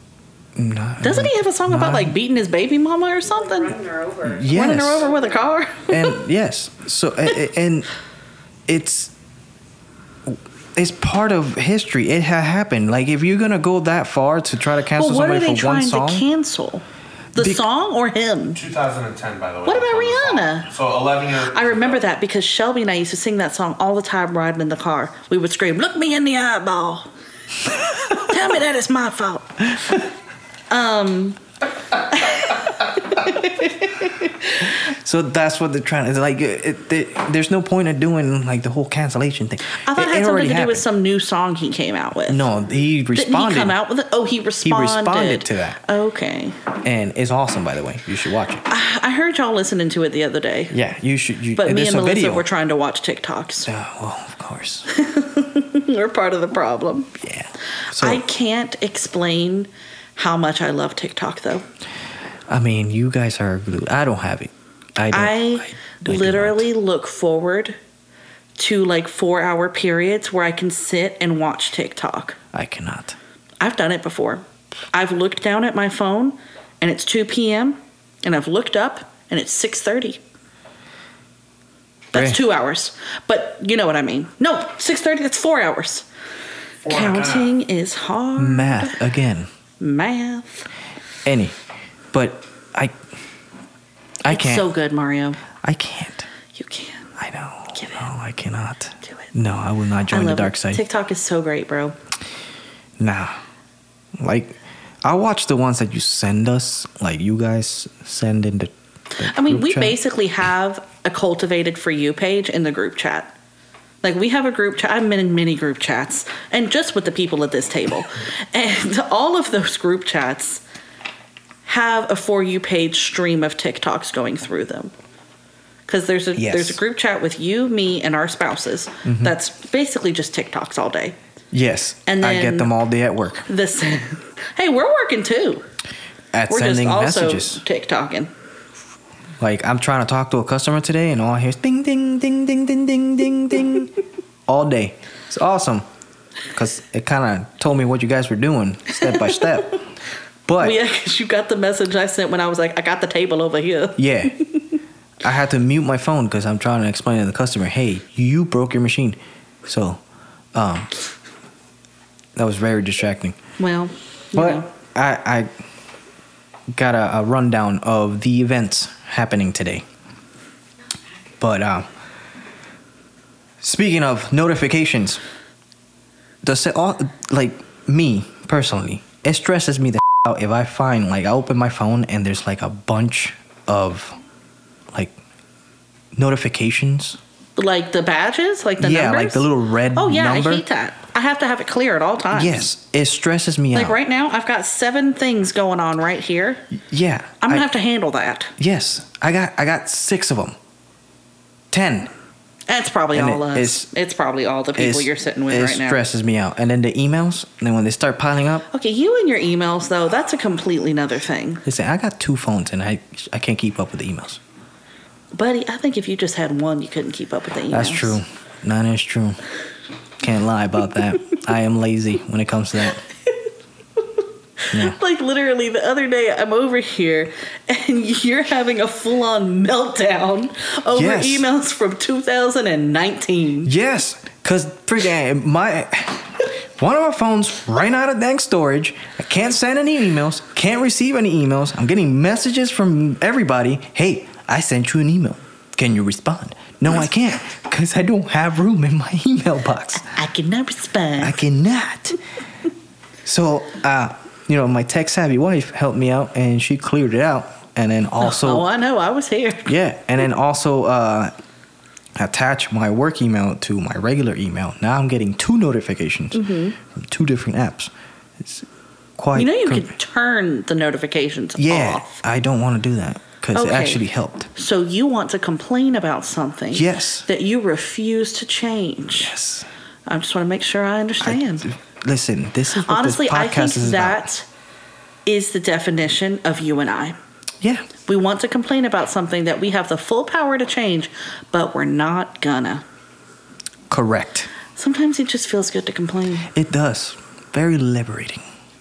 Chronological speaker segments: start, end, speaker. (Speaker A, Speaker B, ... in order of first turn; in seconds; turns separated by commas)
Speaker A: 0.6-2.1, Speaker B: 1.0-3.8, Speaker C: 3.2-5.4, Speaker A: 4.2-5.1, Speaker B: 4.5-6.2, Speaker A: 5.9-7.9, Speaker A: 8.7-9.1, Speaker A: 10.3-16.3, Speaker B: 15.0-16.8, Speaker B: 17.4-18.6, Speaker A: 17.4-17.6, Speaker D: 18.6-22.0, Speaker B: 19.7-20.7, Speaker B: 21.5-27.1, Speaker B: 28.0-30.0, Speaker B: 30.7-31.4, Speaker B: 32.1-33.9, Speaker A: 34.6-40.9, Speaker B: 39.7-42.5, Speaker A: 42.3-43.8, Speaker B: 43.1-46.6, Speaker A: 44.6-45.8, Speaker A: 46.8-48.6, Speaker B: 48.7-50.8, Speaker A: 50.7-52.5, Speaker B: 51.6-53.7, Speaker A: 53.7-54.9, Speaker B: 54.9-57.1, Speaker A: 57.2-58.2, Speaker B: 57.9-61.7, Speaker A: 62.5-66.7, Speaker B: 65.1-67.8, Speaker B: 68.6-72.4, Speaker A: 72.5-73.2, Speaker B: 73.6-80.2, Speaker B: 82.1-86.1, Speaker A: 82.1-82.4, Speaker D: 86.8-87.6, Speaker B: 86.8-89.0, Speaker A: 88.4-89.5, Speaker B: 89.8-90.7, Speaker A: 91.2-91.6, Speaker A: 92.1-93.0, Speaker A: 94.2-94.7, Speaker B: 94.3-95.4, Speaker A: 95.6-96.3, Speaker B: 96.5-97.1, Speaker A: 97.2-100.8, Speaker B: 97.8-98.0, Speaker B: 100.1-102.0, Speaker A: 103.0-103.3, Speaker A: 104.2-110.0, Speaker B: 109.2-113.3, Speaker B: 114.0-120.6, Speaker B: 121.7-124.9, Speaker B: 125.9-131.2, Speaker A: 126.3-126.8, Speaker A: 129.1-129.3, Speaker A: 131.5-133.5, Speaker B: 132.1-132.7, Speaker B: 133.5-135.6, Speaker A: 136.3-137.6, Speaker B: 136.5-138.3, Speaker A: 139.4-143.9, Speaker A: 144.5-145.9, Speaker A: 146.5-149.8, Speaker B: 148.9-149.8, Speaker A: 150.5-150.8, Speaker B: 150.6-154.8, Speaker A: 154.0-154.4, Speaker A: 155.2-160.0, Speaker A: 160.5-160.9, Speaker A: 162.4-163.4, Speaker B: 163.6-164.7, Speaker A: 164.3-165.5, Speaker A: 166.7-169.8, Speaker A: 171.4-171.9, Speaker A: 173.6-175.2, Speaker A: 176.4-184.2, Speaker A: 186.2-187.2, Speaker B: 187.6-192.7, Speaker A: 188.8-190.7, Speaker A: 192.3-194.0, Speaker B: 193.7-196.7, Speaker A: 196.8-197.6, Speaker B: 197.4-198.5, Speaker A: 198.6-200.6, Speaker A: 201.7-202.1, Speaker B: 202.7-206.0, Speaker A: 203.1-203.9, Speaker A: 204.8-208.7, Speaker B: 208.7-211.6, Speaker A: 211.7-214.4, Speaker B: 215.3-218.2, Speaker A: 217.7-219.4, Speaker A: 220.2-223.0, Speaker B: 224.6-233.7, Speaker A: 230.9-231.5, Speaker A: 233.7-250.1, Speaker B: 250.0-251.4, Speaker A: 251.2-252.2, Speaker A: 253.2-258.7, Speaker B: 258.2-259.8, Speaker A: 259.7-261.3, Speaker A: 262.2-268.7, Speaker B: 266.3-266.8, Speaker A: 269.2-269.9, Speaker B: 269.3-272.2, Speaker A: 271.6-274.5, Speaker B: 273.6-274.0, Speaker B: 274.5-279.3, Speaker A: 276.7-277.3, Speaker A: 279.1-279.7, Speaker B: 280.1-281.7, Speaker A: 281.2-284.3, Speaker B: 282.8-284.5, Speaker B: 285.3-287.2, Speaker A: 287.6-287.9, Speaker B: 288.1-292.8, Speaker A: 293.9-294.5, Speaker B: 294.8-296.5, Speaker A: 296.5-298.4